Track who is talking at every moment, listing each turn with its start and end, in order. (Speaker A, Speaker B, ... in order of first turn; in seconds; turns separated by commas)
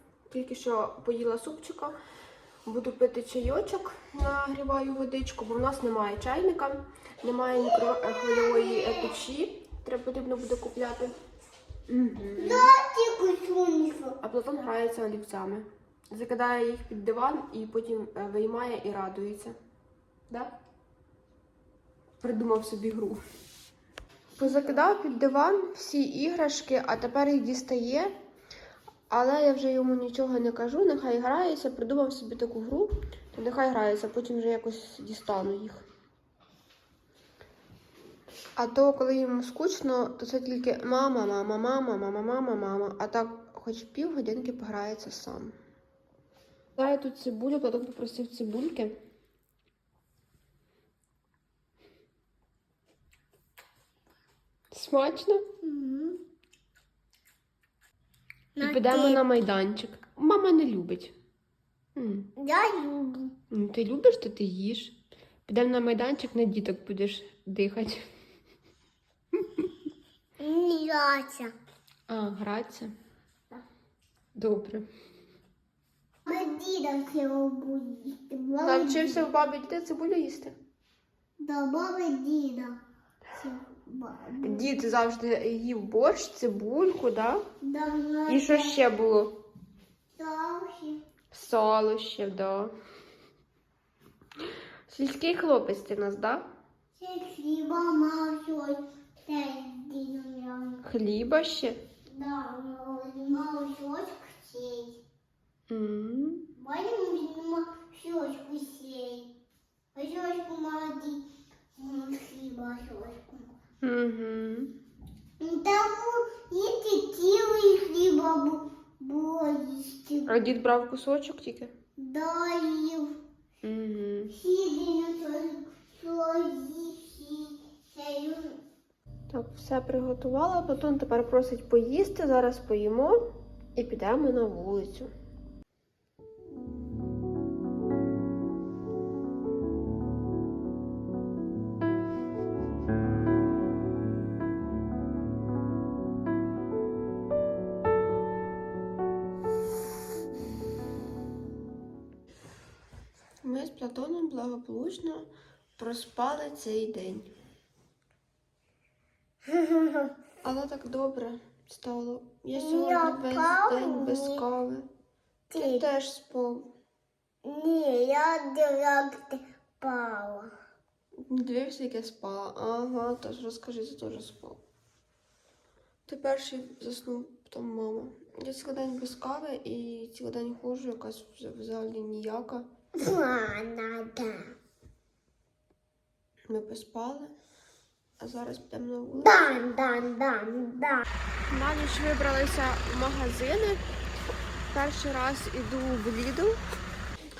Speaker A: 0.3-1.9, Speaker A: 2.6-11.1, Speaker B: 7.5-9.2, Speaker A: 11.9-12.7, Speaker B: 12.3-14.2, Speaker A: 14.2-19.6, Speaker A: 22.2-23.2, Speaker A: 24.4-28.1, Speaker B: 24.4-24.8, Speaker A: 29.1-35.8, Speaker A: 38.6-45.5, Speaker A: 46.8-48.9, Speaker A: 54.7-55.4, Speaker B: 55.6-56.2, Speaker B: 58.5-59.2, Speaker A: 58.6-61.1, Speaker A: 62.0-62.3, Speaker B: 62.4-63.3, Speaker A: 63.5-64.9, Speaker A: 65.5-68.0, Speaker A: 69.4-69.7, Speaker B: 70.4-71.5, Speaker A: 72.1-72.9, Speaker A: 74.3-74.8, Speaker B: 76.2-79.3, Speaker A: 78.6-80.5, Speaker B: 81.4-82.8, Speaker B: 83.3-84.7, Speaker A: 84.4-87.4, Speaker B: 87.6-88.8, Speaker A: 88.3-89.3, Speaker B: 90.2-91.0, Speaker A: 91.3-92.7, Speaker A: 94.9-96.4, Speaker B: 97.0-100.8, Speaker A: 100.8-101.8, Speaker B: 102.1-105.0, Speaker A: 105.7-106.4, Speaker B: 106.6-109.3, Speaker B: 109.9-111.2, Speaker B: 111.8-113.5, Speaker A: 113.8-114.7, Speaker B: 115.4-120.4, Speaker A: 120.3-121.7, Speaker B: 122.0-123.2, Speaker A: 123.6-124.3, Speaker B: 124.3-128.6, Speaker A: 129.3-133.2, Speaker A: 133.7-135.1, Speaker A: 153.4-157.3, Speaker B: 159.5-160.1, Speaker A: 160.4-164.9, Speaker B: 162.6-164.4, Speaker B: 165.5-165.8, Speaker A: 165.6-166.7, Speaker B: 167.4-170.5, Speaker A: 171.3-174.6, Speaker A: 176.1-182.7, Speaker B: 183.0-184.5, Speaker A: 186.5-187.3, Speaker A: 188.2-189.5, Speaker B: 189.1-191.1, Speaker A: 191.5-193.8, Speaker A: 194.7-196.6